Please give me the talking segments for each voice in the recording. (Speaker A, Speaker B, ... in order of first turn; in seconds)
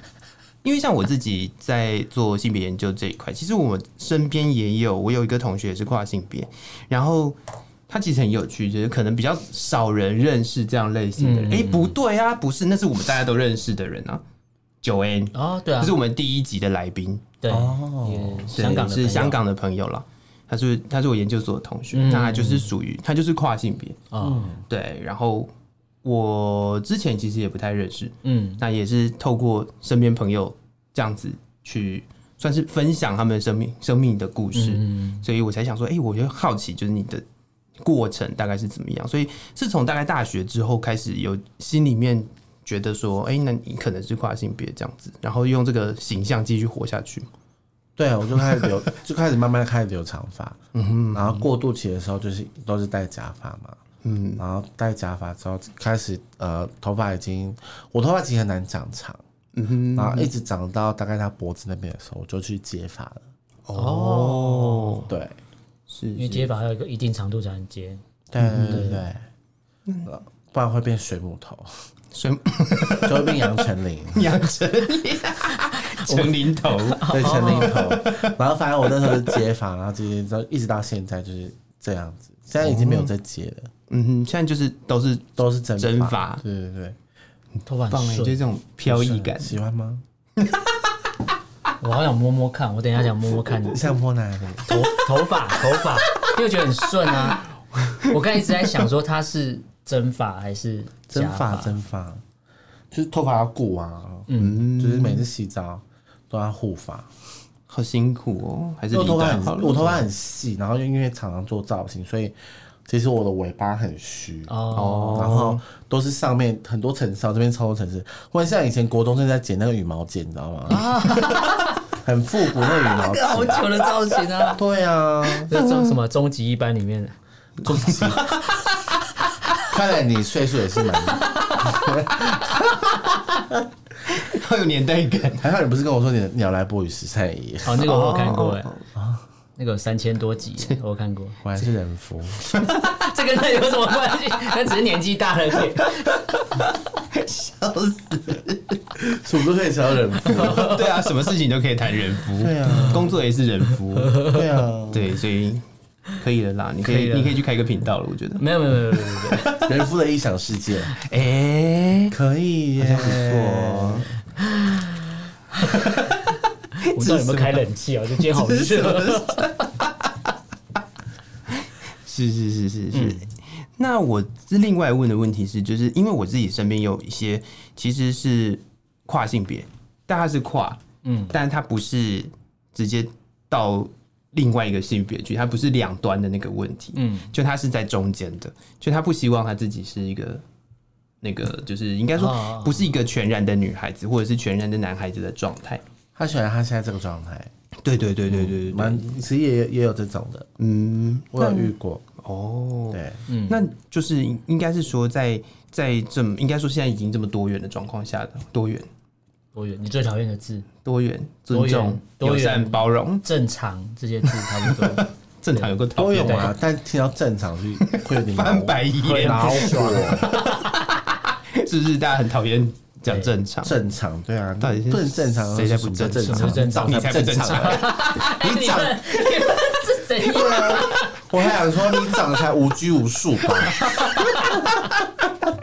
Speaker A: 0.6-14.2, 14.8-17.4, 18.5-24.0, 24.7-25.5, 26.0-37.2, 37.8-47.3, 50.7-51.5, 54.0-54.4, 59.5-60.3, 63.6-65.1, 65.9-66.5, 68.4-69.0, 72.1-73.6, 74.1-78.3, 79.0-79.3, 82.6-83.1, 83.9-86.4, 87.9-89.6, 90.4-90.9, 97.9-98.1, 104.3-105.2, 107.7-110.0, 114.7-115.6, 121.1-121.7, 122.8-124.5, 125.5-125.9, 128.0-128.4, 132.4-133.4, 134.1-135.4, 137.8-138.8, 142.5-142.8, 146.1-148.8, 150.4-154.3, 154.9-155.6, 156.2-158.4, 159.1-159.6, 160.9-162.1, 162.8-164.1, 165.8-166.3, 166.8-167.6, 168.2-170.3, 171.5-190.4, 191.2-195.8, 197.8-199.2, 200.6-208.9, 210.8-213.2, 214.2-216.6, 217.8-223.8, 224.6-228.5
Speaker B: 11.2-11.9, 15.3-15.9, 17.4-19.4, 21.9-22.7, 24.1-24.5, 28.2-28.6, 34.5-35.2, 63.7-65.1, 66.2-68.0, 68.6-69.0, 76.1-77.8, 87.7-88.4, 91.8-93.9, 94.7-97.5, 98.0-101.7, 104.3-104.7, 114.5-115.3, 120.7-121.7, 123.2-124.6, 125.5-127.1, 137.7-138.7, 139.6-141.6, 142.5-146.2, 150.3-150.8, 156.8-157.4, 158.4-159.6, 164.5-164.9, 166.8-169.7, 172.9-173.3, 181.0-181.3, 186.9-187.3, 192.2-192.9, 203.3-203.6, 209.5-210.7, 211.5-216.5, 219.0-220.5, 223.1-223.3, 226.1-231.1, 233.7-234.7
Speaker C: 17.5-18.5, 24.2-24.6, 48.0-50.6, 51.1-53.8, 54.4-59.2, 59.9-63.2, 65.1-65.3, 68.3-69.2, 70.0-71.7, 73.0-74.3, 77.1-83.7, 85.4-87.0, 88.8-90.0, 93.6-94.7, 101.1-102.2, 102.9-107.1, 108.9-114.6, 115.1-121.0, 122.0-123.7, 124.5-125.5, 127.6-128.4, 129.7-132.5, 135.4-137.8, 138.9-139.2, 141.4-142.4, 149.0-150.8, 152.4-153.2, 154.3-155.2, 159.6-160.9, 162.1-164.1, 196.2-197.5, 198.3-200.5, 201.3-202.0, 202.9-203.2, 215.9-220.3, 223.6-229.0, 230.2-233.9